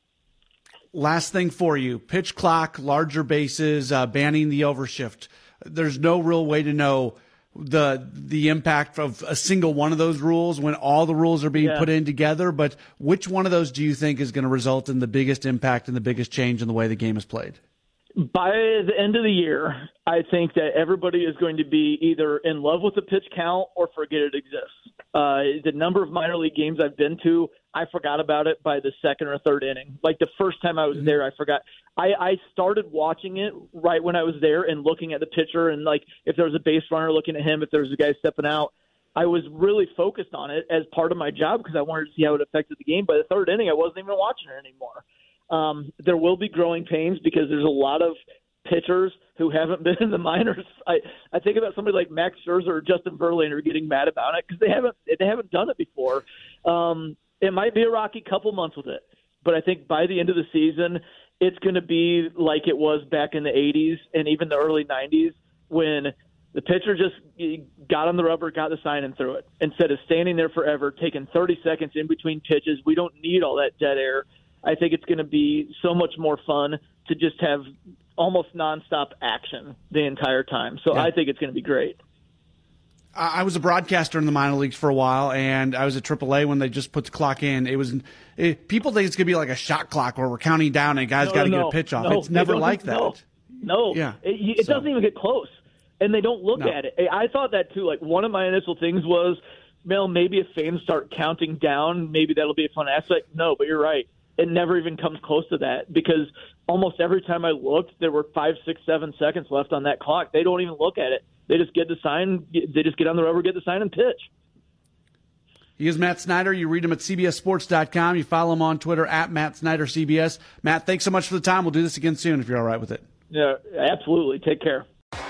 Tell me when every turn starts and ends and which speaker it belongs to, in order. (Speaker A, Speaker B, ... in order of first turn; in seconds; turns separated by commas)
Speaker A: 0.9-17.6, Speaker B: 11.6-11.9, Speaker B: 18.2-77.7, Speaker B: 78.2-82.0, Speaker A: 83.1-93.2, Speaker B: 91.2-114.3, Speaker A: 93.9-94.9, Speaker A: 115.8-123.0, Speaker B: 123.3-124.8